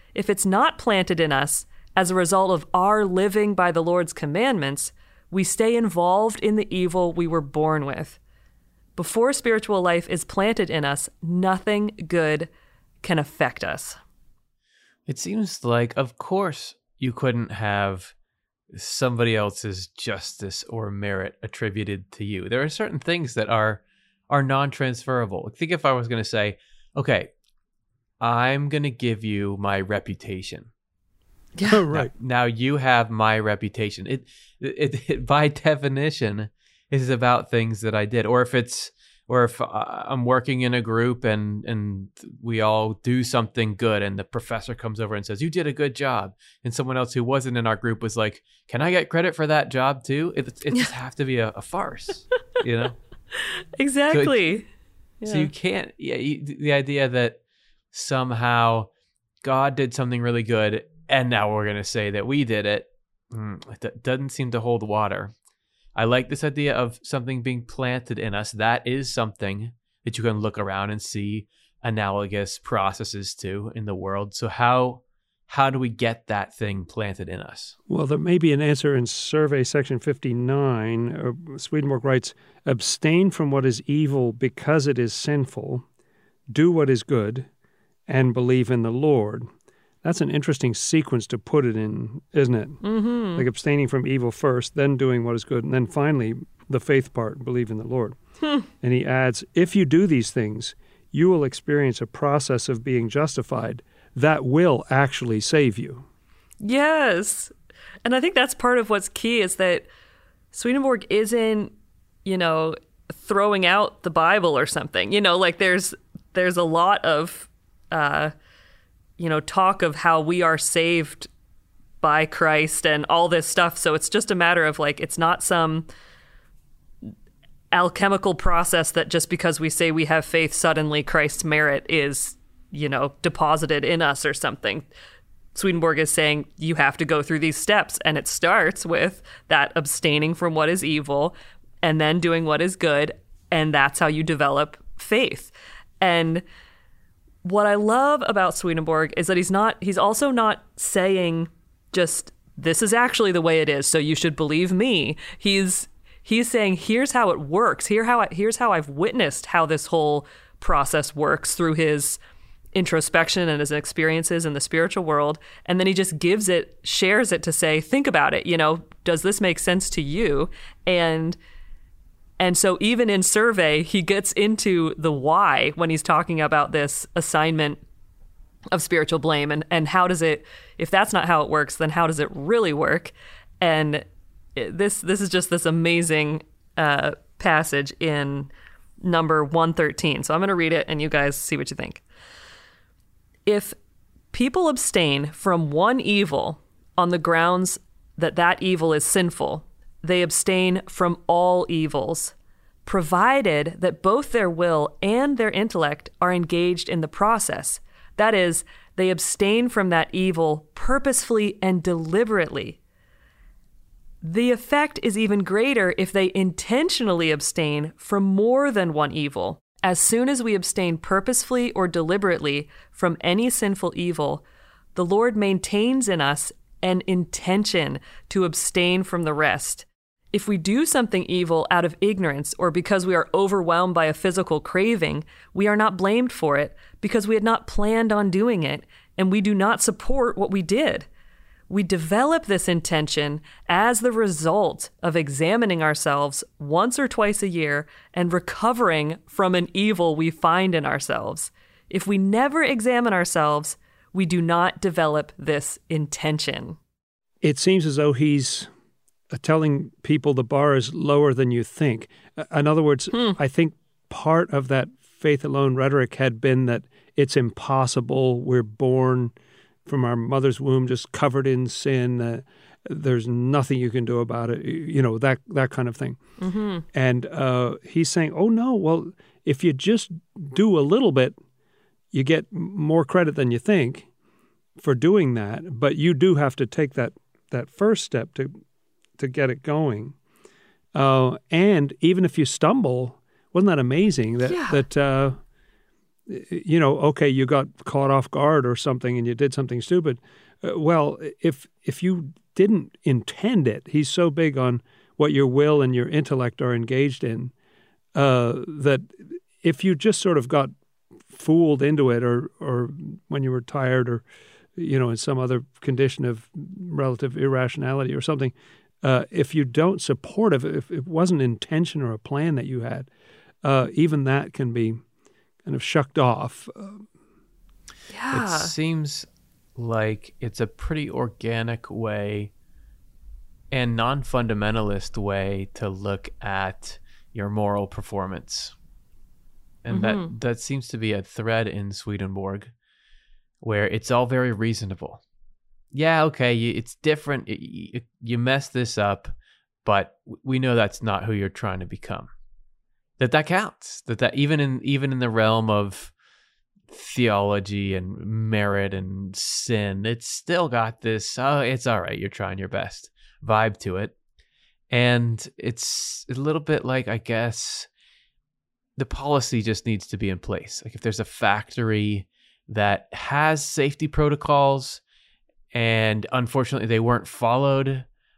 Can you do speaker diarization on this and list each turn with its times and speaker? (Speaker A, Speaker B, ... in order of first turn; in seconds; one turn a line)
Speaker A: 0.1-8.2
Speaker A: 8.9-12.5
Speaker A: 13.0-14.0
Speaker B: 15.1-18.1
Speaker B: 18.7-27.3
Speaker B: 28.2-30.7
Speaker C: 31.7-32.1
Speaker B: 31.9-53.0
Speaker A: 53.8-54.7
Speaker B: 54.1-54.4
Speaker A: 55.2-55.5
Speaker B: 55.2-57.4
Speaker B: 57.9-58.9
Speaker B: 59.4-65.3
Speaker B: 65.9-77.7
Speaker C: 77.9-85.8
Speaker C: 86.5-87.5
Speaker C: 88.1-89.5
Speaker C: 90.0-92.8
Speaker A: 92.8-93.4
Speaker C: 93.3-98.2
Speaker C: 98.8-106.0
Speaker A: 106.6-107.5
Speaker A: 108.0-109.8
Speaker A: 110.5-111.7
Speaker A: 112.2-118.3
Speaker A: 119.2-121.3
Speaker A: 122.0-125.8
Speaker A: 127.7-134.9
Speaker A: 135.5-146.4
Speaker A: 147.4-162.2
Speaker A: 162.7-171.4
Speaker A: 172.4-177.8
Speaker A: 178.7-184.0
Speaker A: 184.6-188.5
Speaker A: 189.0-192.0
Speaker A: 193.4-193.8
Speaker A: 194.3-202.3
Speaker A: 202.8-212.8
Speaker A: 214.2-224.4
Speaker A: 224.9-241.1
Speaker A: 241.7-256.8
Speaker C: 257.4-258.7
Speaker C: 259.3-269.3
Speaker C: 269.9-276.2
Speaker A: 276.4-276.8
Speaker C: 276.9-281.3
Speaker C: 282.1-284.1
Speaker C: 284.8-288.6
Speaker C: 289.2-290.1
Speaker C: 290.9-295.4
Speaker A: 294.4-294.8
Speaker C: 296.3-307.5
Speaker C: 308.1-310.7
Speaker C: 311.3-314.2
Speaker C: 314.7-323.1
Speaker C: 323.6-325.0
Speaker C: 325.6-327.1
Speaker A: 328.1-328.7
Speaker B: 328.3-332.5
Speaker B: 333.7-338.7
Speaker B: 339.8-342.7
Speaker A: 339.9-340.3
Speaker B: 343.6-345.2
Speaker B: 345.9-349.3
Speaker B: 349.8-352.3
Speaker B: 353.2-356.1
Speaker B: 356.9-364.1
Speaker B: 364.9-367.9
Speaker B: 369.0-375.0
Speaker B: 375.7-378.1